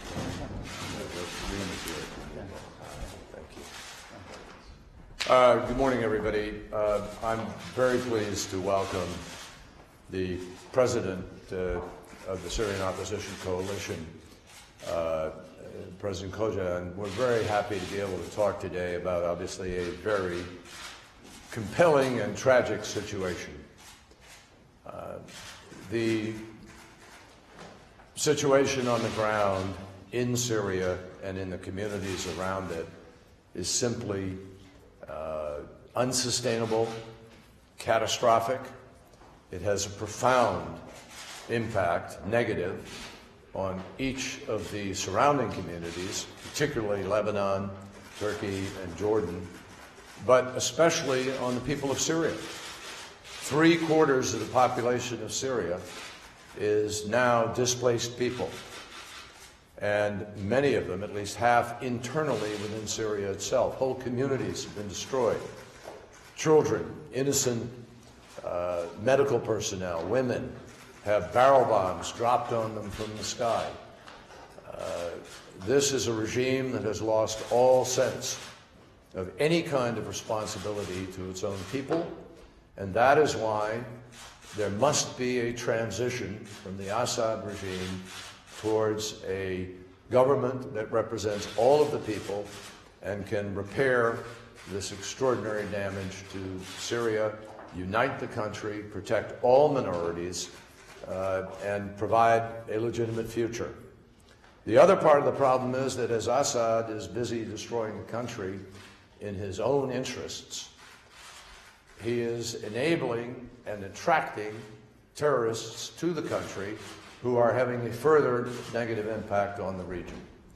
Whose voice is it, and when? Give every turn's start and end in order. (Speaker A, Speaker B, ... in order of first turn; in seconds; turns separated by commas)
Speaker A: 0.9-2.5, Speaker A: 3.3-3.7, Speaker A: 5.2-9.2, Speaker A: 10.1-14.1, Speaker A: 14.8-20.5, Speaker A: 21.5-23.6, Speaker A: 24.9-26.5, Speaker A: 28.1-32.9, Speaker A: 33.5-34.4, Speaker A: 35.0-37.0, Speaker A: 37.8-38.7, Speaker A: 39.5-40.8, Speaker A: 41.5-42.9, Speaker A: 43.5-49.5, Speaker A: 50.2-52.5, Speaker A: 53.4-55.8, Speaker A: 56.5-58.6, Speaker A: 59.8-65.5, Speaker A: 66.3-67.8, Speaker A: 68.4-73.8, Speaker A: 74.6-78.4, Speaker A: 79.1-82.2, Speaker A: 82.8-83.9, Speaker A: 84.5-100.5, Speaker A: 101.0-103.8, Speaker A: 104.7-108.6, Speaker A: 109.2-110.7, Speaker A: 112.0-120.2